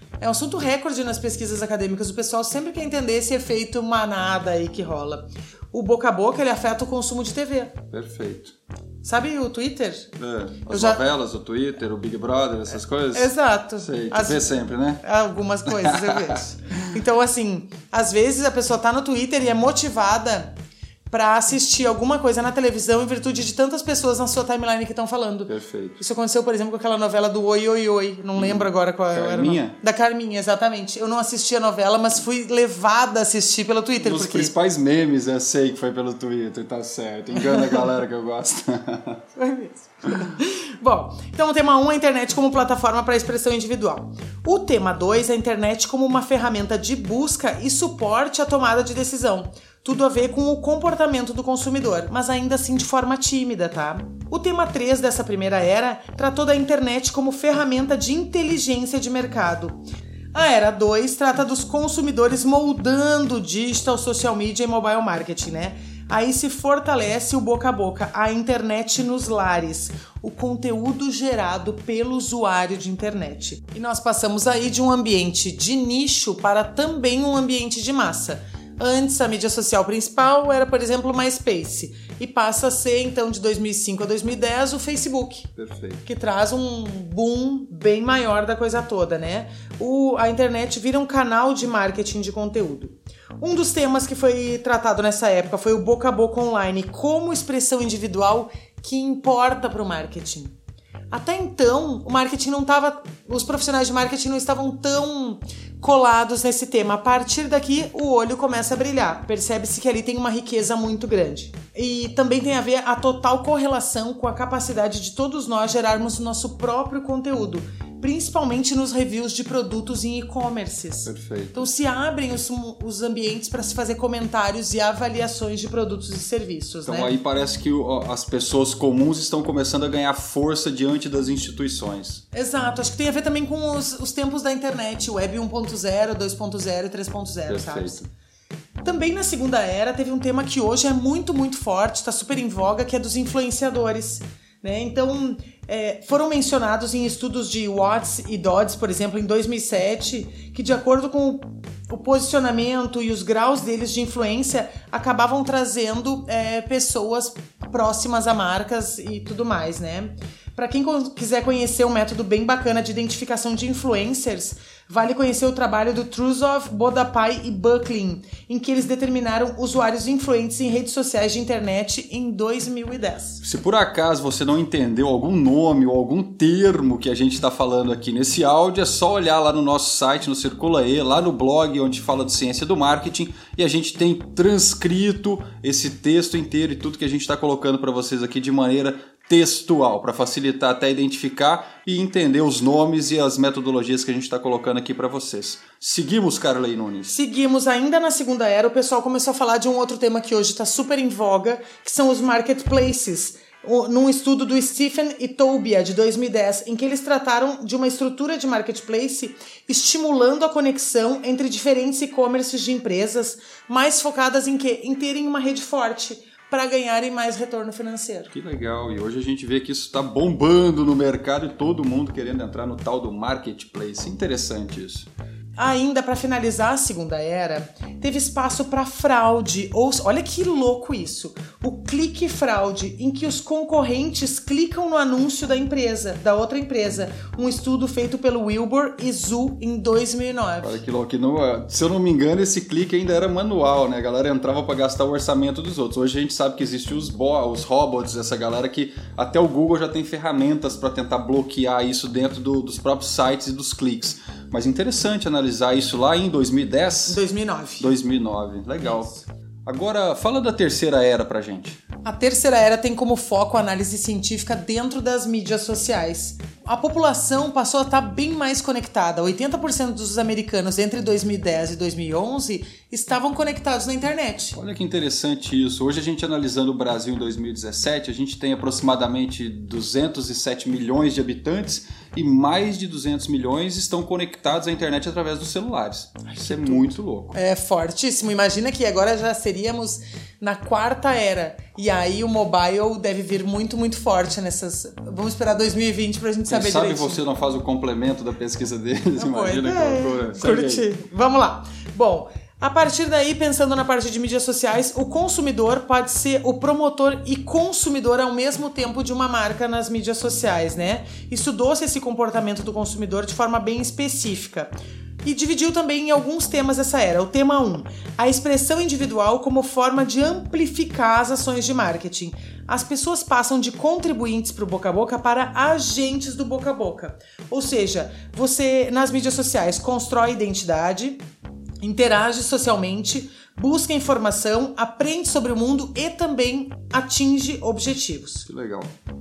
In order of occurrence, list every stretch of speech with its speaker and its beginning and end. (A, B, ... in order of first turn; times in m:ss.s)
0:00.2-0:07.8 A
0:07.9-0:08.5 B
0:09.0-0:10.1 A
0:10.2-0:15.0 B
0:10.7-0:11.0 A
0:13.1-0:20.5 A
0:15.7-0:16.4 B
0:21.1-0:34.5 A
0:25.5-0:26.0 B
0:28.4-0:29.8 B
0:34.0-0:39.2 B
0:37.4-0:37.8 A
0:39.4-0:59.8 A
1:00.3-1:25.5 A
1:25.6-1:26.0 B
1:26.1-1:40.6 A
1:41.1-2:07.2 A
2:01.0-2:01.6 B
2:06.9-2:12.2 B
2:12.3-2:18.0 A
2:17.5-2:18.1 B
2:18.8-2:53.4 A
2:53.4-3:17.2 B
3:17.1-3:38.3 A
3:38.3-3:45.1 B
3:45.6-4:00.8 A
4:00.6-4:17.2 B
4:17.1-4:18.0 A
4:17.8-4:21.8 B
4:18.8-4:19.2 A
4:22.0-4:34.6 A
4:34.6-4:47.4 B
4:46.3-4:57.2 A
4:56.5-5:00.9 B
4:59.2-5:14.7 A
5:15.2-5:31.2 A
5:31.8-5:38.5 A
5:38.5-5:38.9 B